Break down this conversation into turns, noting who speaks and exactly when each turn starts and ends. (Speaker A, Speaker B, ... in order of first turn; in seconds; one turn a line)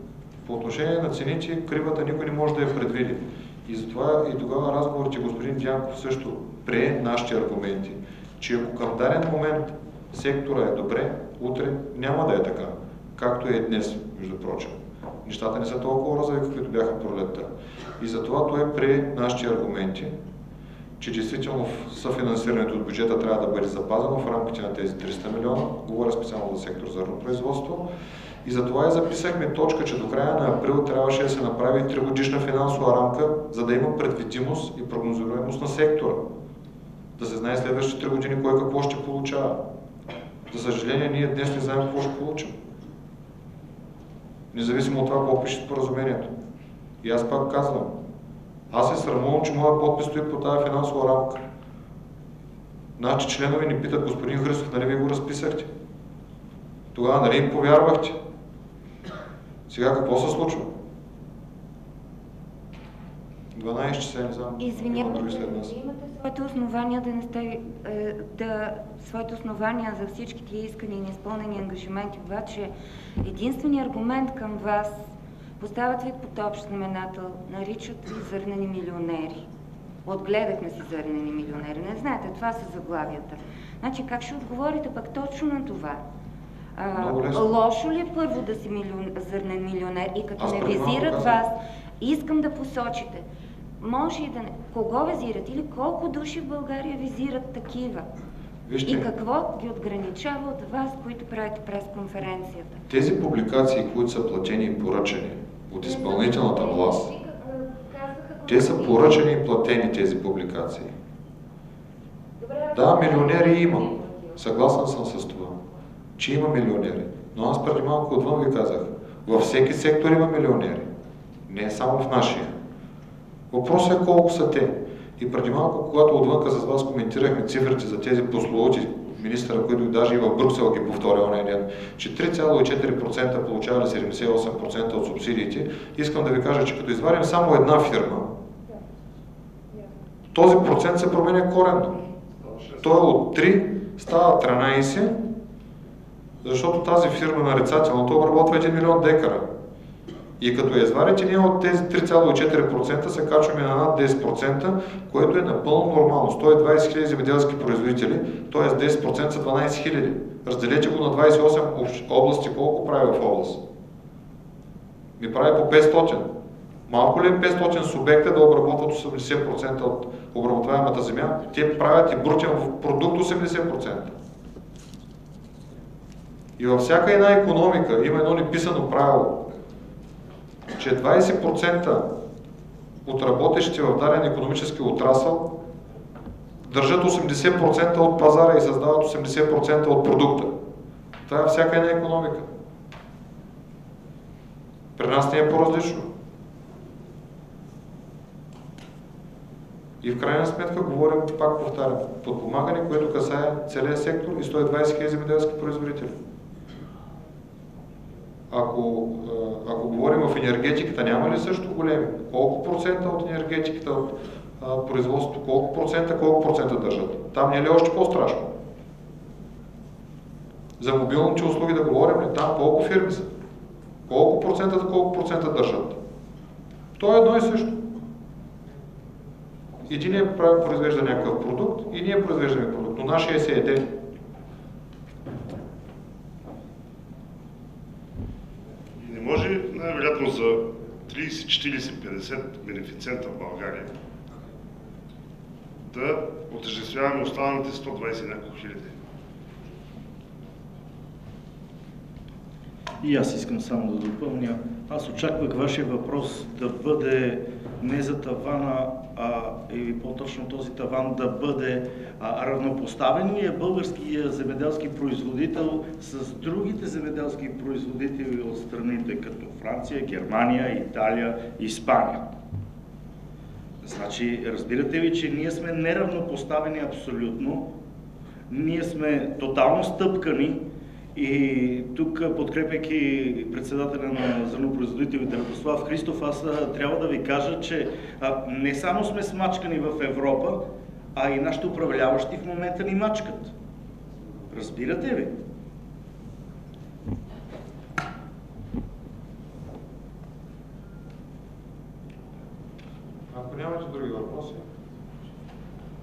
Speaker A: 0.4-17.5
Speaker A: 18.0-20.1
Speaker A: 21.0-27.9
Speaker A: 28.4-36.2
Speaker A: 37.2-39.6
Speaker A: 40.5-42.5
Speaker A: 44.5-46.3
Speaker A: 47.0-48.0
Speaker A: 48.7-51.4
Speaker A: 53.0-55.7
Speaker A: 56.9-58.2
Speaker A: 59.7-60.7
Speaker A: 63.5-65.7
Speaker B: 64.6-79.5
Speaker B: 80.0-86.0
Speaker B: 86.8-93.2
Speaker A: 86.9-87.5
Speaker A: 90.4-91.4
Speaker B: 93.8-98.1
Speaker A: 98.7-99.1
Speaker B: 98.8-102.8
Speaker A: 102.9-107.1
Speaker B: 105.8-109.2
Speaker A: 108.5-110.9
Speaker B: 112.4-114.4
Speaker A: 112.7-115.6
Speaker A: 116.2-120.9
Speaker A: 121.5-122.5
Speaker A: 123.5-138.3
Speaker A: 140.3-142.0
Speaker C: 142.5-142.8
Speaker A: 142.8-145.2
Speaker A: 146.4-149.4
Speaker A: 150.4-163.6
Speaker A: 165.2-166.3
Speaker A: 166.9-174.1
Speaker A: 176.6-179.4
Speaker A: 180.8-182.1
Speaker A: 183.0-185.5
Speaker A: 186.6-190.5
Speaker A: 191.2-192.5
Speaker A: 194.9-196.1
Speaker A: 200.0-206.1
Speaker A: 208.5-218.5
Speaker A: 220.8-223.3
Speaker A: 224.1-226.0
Speaker A: 227.0-227.8
Speaker A: 229.8-233.9
Speaker C: 239.0-243.9
Speaker C: 245.9-248.9
Speaker D: 253.0-272.3
Speaker D: 273.8-277.7
Speaker D: 278.5-280.6
Speaker D: 281.1-290.6
Speaker D: 291.1-293.5
Speaker D: 294.5-295.4
Speaker A: 303.3-304.6